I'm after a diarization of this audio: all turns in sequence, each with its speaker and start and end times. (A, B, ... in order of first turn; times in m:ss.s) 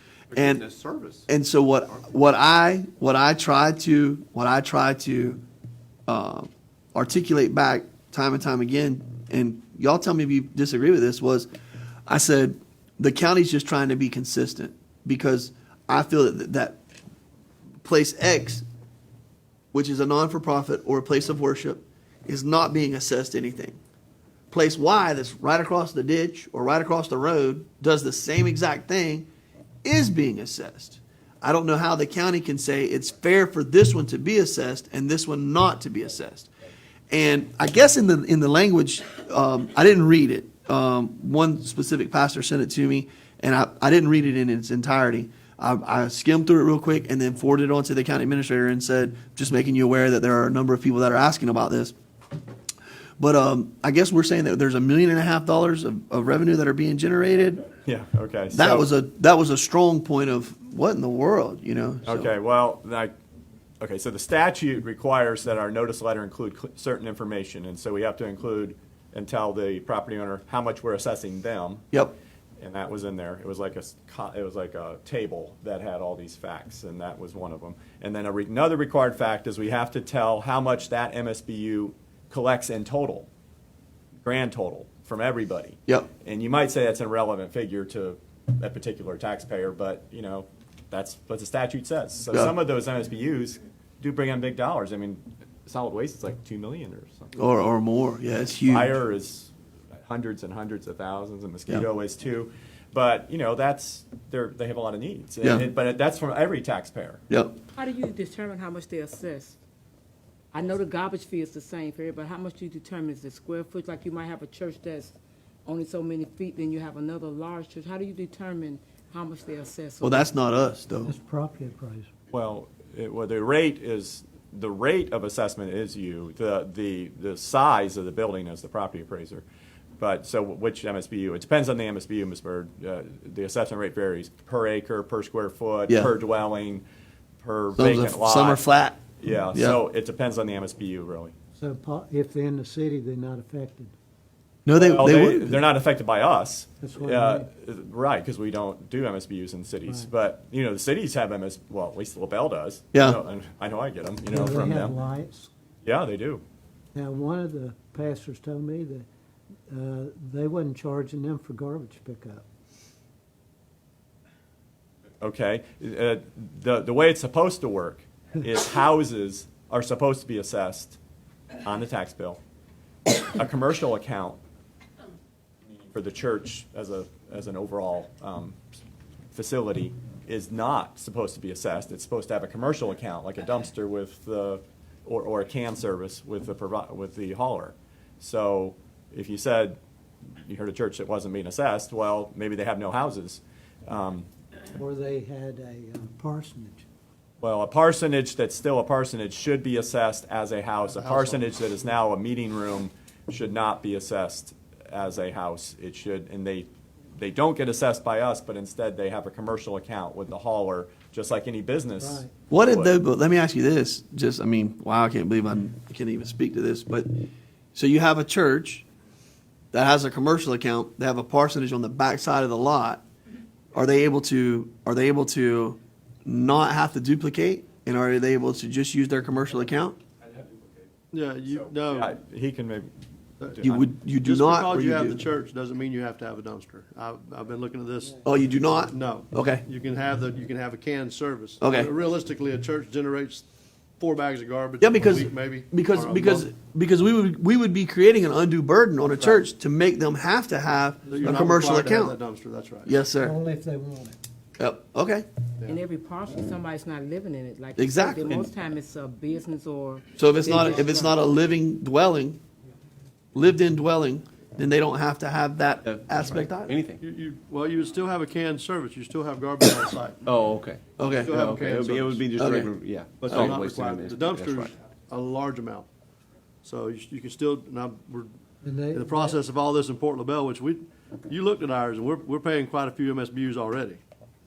0:00.3-0:00.6 A
0:00.3-0:01.3 B
0:01.3-0:05.4 A
0:06.1-0:11.5 A
0:12.0-0:16.8 A
0:17.8-0:18.6 A
0:19.7-0:23.8 A
0:24.5-0:29.3 A
0:29.8-0:36.5 A
0:37.1-0:51.9 A
0:53.2-0:57.6 A
0:57.8-0:58.9 C
0:58.5-1:02.3 A
1:02.0-1:03.1 C
1:03.8-1:11.9 C
1:12.6-1:23.3 C
1:24.2-1:37.3 C
1:37.3-1:38.9 A
1:38.6-1:39.5 C
1:40.0-1:47.2 C
1:45.4-1:45.7 A
1:47.8-1:49.6 D
1:50.5-2:00.3 D
2:00.0-2:01.1 A
2:01.0-2:02.1 E
2:02.3-2:09.4 C
2:10.0-2:16.8 C
2:17.4-2:18.6 C
2:17.8-2:19.0 A
2:19.2-2:21.3 C
2:19.5-2:19.8 A
2:21.6-2:23.9 E
2:24.6-2:25.6 A
2:24.7-2:34.9 C
2:26.8-2:27.5 E
2:32.9-2:33.2 A
2:34.3-2:35.5 E
2:35.8-2:36.4 C
2:36.9-2:39.1 E
2:39.7-2:42.4 E
2:45.2-2:51.0 C
2:51.6-2:52.4 C
2:53.3-2:54.4 C
2:55.7-2:58.6 C
2:59.3-3:09.8 C
3:10.4-3:14.3 C
3:14.7-3:16.8 E
3:17.4-3:33.0 C
3:20.8-3:21.5 F
3:32.0-3:32.3 E
3:32.5-3:37.1 A
3:37.7-3:38.8 A
3:39.7-3:43.0 A
3:43.7-3:50.0 A
3:50.2-3:50.7 C
3:51.1-3:52.1 F
3:51.5-3:52.9 C
3:53.4-3:53.7 F
3:53.5-3:53.8 C
3:53.6-3:55.2 A
3:54.2-3:58.2 F
3:58.2-3:59.6 A
3:58.9-4:03.5 F
4:01.6-4:01.9 A
4:04.0-4:06.5 F
4:04.8-4:12.2 A
4:11.0-4:11.6 E
4:11.1-4:12.9 F
4:12.8-4:13.4 A
4:13.1-4:14.2 E
4:14.6-4:15.2 A
4:15.7-4:21.2 D
4:17.8-4:18.5 A
4:20.2-4:22.4 A
4:23.3-4:26.8 A
4:25.8-4:27.0 B
4:27.0-4:30.2 F
4:30.2-4:34.7 B
4:31.0-4:31.4 A
4:31.2-4:32.3 F
4:32.3-4:32.7 A
4:33.2-4:35.9 F
4:36.6-4:38.3 F
4:38.6-4:39.4 E
4:38.9-4:44.0 F